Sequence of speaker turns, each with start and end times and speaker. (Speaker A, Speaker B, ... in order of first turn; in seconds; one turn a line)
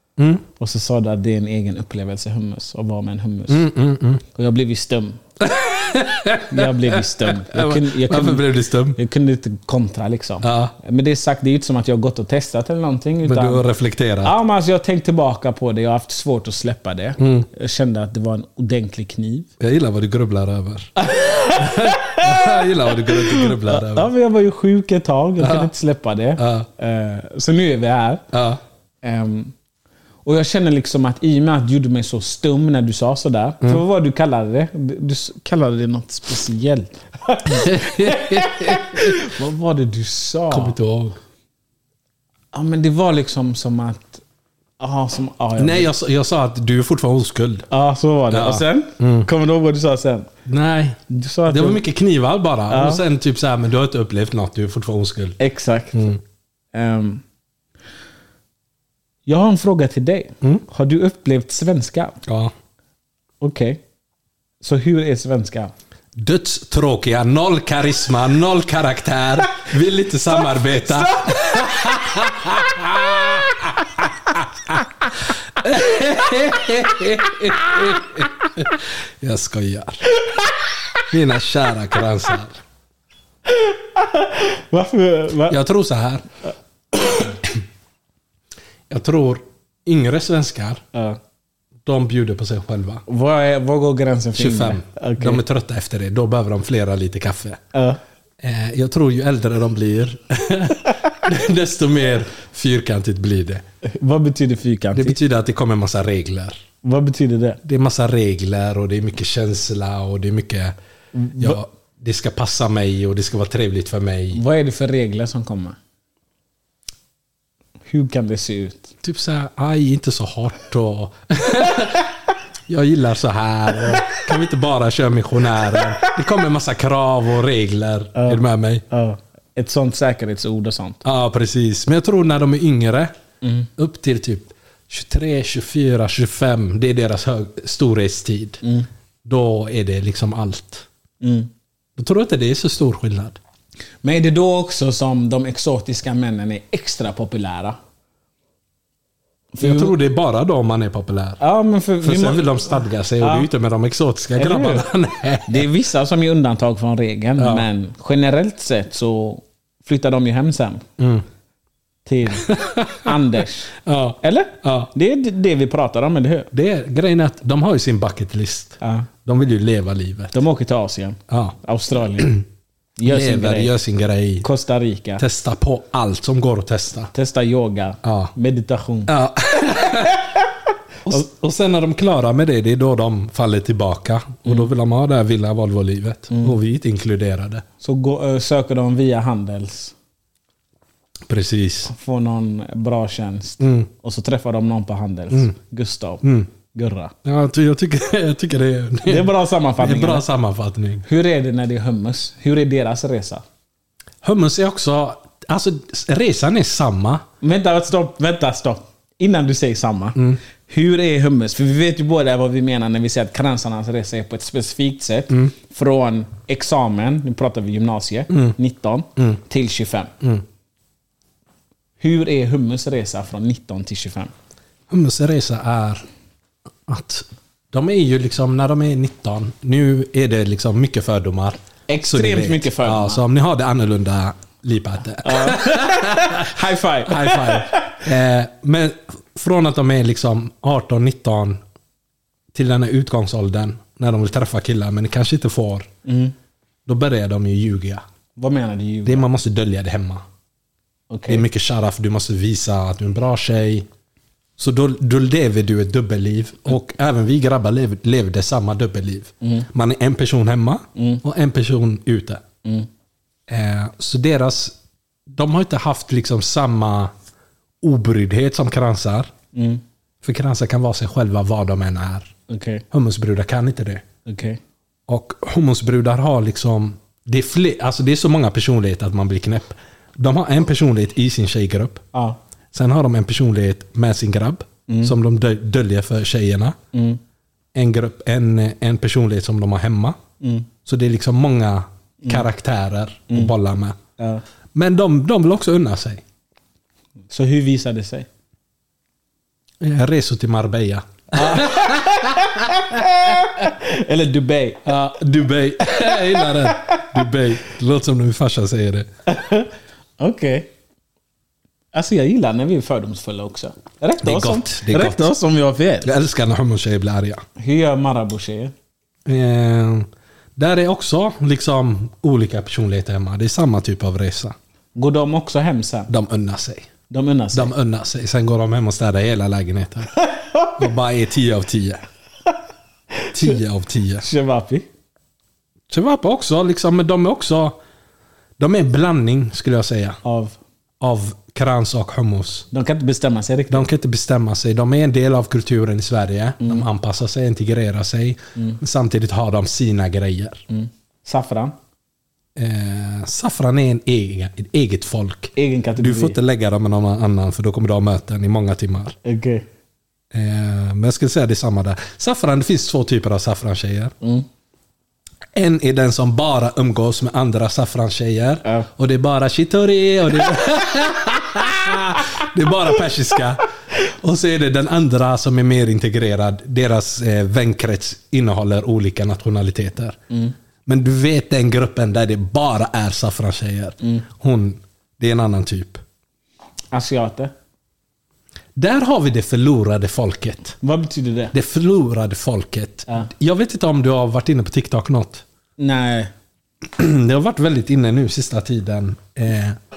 Speaker A: 0.2-0.5
Speaker B: 0.6-3.7
Speaker A: 3.5-4.2
Speaker B: 4.3-5.2
Speaker A: 5.4-9.0
Speaker B: 6.5-13.7
Speaker A: 10.4-10.7
Speaker A: 13.2-14.3
Speaker B: 14.2-19.5
Speaker A: 17.2-17.5
Speaker A: 19.6-24.1
Speaker B: 21.0-28.2
Speaker A: 25.4-25.7
Speaker A: 26.4-26.7
Speaker A: 28.3-28.6
Speaker B: 29.0-29.5
Speaker B: 30.2-40.8
Speaker A: 37.5-39.2
Speaker A: 40.5-41.2
Speaker B: 42.5-44.2
Speaker B: 44.8-45.9
Speaker A: 45.6-47.7
Speaker B: 47.7-50.3
Speaker A: 48.3-49.3
Speaker A: 50.5-55.4
Speaker B: 51.1-51.8
Speaker B: 52.7-53.0
Speaker B: 55.4-56.1
Speaker A: 55.9-56.2
Speaker B: 56.7-57.2
Speaker B: 59.3-62.2
Speaker A: 62.2-62.5
Speaker B: 63.4-63.8
Speaker B: 64.6-65.7
Speaker A: 66.2-80.0
Speaker B: 80.2-80.5
Speaker A: 81.1-82.6
Speaker B: 83.5-85.6
Speaker A: 85.5-86.3
Speaker B: 87.0-87.3
Speaker A: 88.9-90.8
Speaker B: 90.9-91.2
Speaker A: 91.8-93.0
Speaker B: 93.1-95.4
Speaker A: 94.3-97.6
Speaker B: 97.7-98.0
Speaker A: 98.4-103.6
Speaker B: 103.8-105.2
Speaker A: 105.0-106.6
Speaker B: 106.8-107.6
Speaker A: 107.6-110.8
Speaker B: 111.1-111.6
Speaker A: 111.4-114.4
Speaker B: 114.3-115.8
Speaker B: 117.9-118.9
Speaker A: 119.0-122.1
Speaker A: 122.7-128.8
Speaker B: 125.7-126.2
Speaker B: 128.2-131.0
Speaker A: 131.0-133.1
Speaker B: 133.4-133.7
Speaker A: 133.8-138.6
Speaker B: 138.6-138.9
Speaker A: 139.2-140.9
Speaker B: 141.2-141.5
Speaker A: 142.0-143.4
Speaker B: 144.0-147.8
Speaker B: 149.5-150.0
Speaker A: 149.6-151.4
Speaker B: 151.4-153.5
Speaker A: 152.0-155.7
Speaker B: 154.4-154.9
Speaker B: 155.5-160.9
Speaker A: 157.4-157.7
Speaker A: 161.0-161.2
Speaker B: 162.1-166.5
Speaker A: 162.4-163.1
Speaker A: 163.8-164.9
Speaker A: 166.5-170.4
Speaker B: 168.8-169.1
Speaker B: 170.3-172.4
Speaker A: 171.3-171.6
Speaker A: 172.2-172.4
Speaker B: 173.0-173.7
Speaker A: 173.1-174.5
Speaker B: 174.4-175.2
Speaker A: 175.2-177.1
Speaker B: 177.1-179.1
Speaker A: 178.0-178.3
Speaker A: 179.1-180.2
Speaker B: 179.8-180.1
Speaker A: 181.1-187.6
Speaker B: 186.3-186.6
Speaker B: 187.8-189.9
Speaker A: 191.3-191.9
Speaker B: 191.9-197.2
Speaker A: 193.6-193.9
Speaker A: 196.2-196.5
Speaker A: 197.2-201.1
Speaker B: 199.1-200.2
Speaker B: 201.0-203.4
Speaker A: 204.2-207.2
Speaker B: 207.4-220.1
Speaker A: 218.3-218.6
Speaker B: 222.0-224.3
Speaker A: 224.9-226.0
Speaker A: 226.9-241.6
Speaker B: 231.9-233.2
Speaker B: 235.2-238.0
Speaker A: 242.5-245.9
Speaker B: 246.1-246.3
Speaker A: 246.9-248.0
Speaker B: 248.4-249.3
Speaker A: 249.1-250.2
Speaker B: 251.1-251.4
Speaker A: 251.3-253.9
Speaker A: 254.6-262.4
Speaker B: 259.4-259.7
Speaker B: 261.0-261.2
Speaker A: 263.5-264.8
Speaker A: 265.3-267.1
Speaker A: 267.8-269.3
Speaker B: 269.5-269.8
Speaker A: 270.2-272.3
Speaker B: 272.5-272.9
Speaker A: 272.9-274.0
Speaker B: 274.2-274.6
Speaker A: 275.1-282.0
Speaker B: 282.1-282.4
Speaker A: 282.7-286.8
Speaker B: 284.9-285.1
Speaker B: 286.9-287.2
Speaker A: 287.8-290.2
Speaker B: 290.4-290.7
Speaker A: 290.9-294.0
Speaker B: 292.2-292.5
Speaker B: 294.2-294.4
Speaker A: 294.7-296.2
Speaker B: 297.3-298.3
Speaker A: 299.8-303.0
Speaker B: 301.3-304.9
Speaker A: 304.9-309.1
Speaker B: 305.8-307.3
Speaker B: 309.3-310.7
Speaker B: 311.9-316.1
Speaker A: 314.2-315.3
Speaker A: 316.0-317.4
Speaker B: 317.6-318.7
Speaker A: 319.3-324.6
Speaker B: 324.9-326.1
Speaker A: 326.1-326.9
Speaker B: 327.1-327.7
Speaker A: 327.5-330.1
Speaker B: 330.2-330.9
Speaker A: 330.8-332.0
Speaker B: 333.2-333.6
Speaker A: 333.3-334.2
Speaker B: 334.2-334.9
Speaker A: 335.9-337.8
Speaker A: 338.6-340.2
Speaker B: 340.2-340.6
Speaker A: 341.0-342.7
Speaker B: 342.7-343.9
Speaker A: 343.7-350.6
Speaker B: 346.6-346.9
Speaker B: 350.7-351.8
Speaker A: 352.6-359.2
Speaker B: 355.6-356.4
Speaker B: 359.2-359.7
Speaker A: 360.3-364.1
Speaker A: 365.6-380.2
Speaker A: 380.9-386.0
Speaker B: 386.9-387.5
Speaker A: 388.8-390.8
Speaker B: 390.8-391.5
Speaker A: 391.5-395.4
Speaker B: 395.8-396.3
Speaker A: 396.9-399.8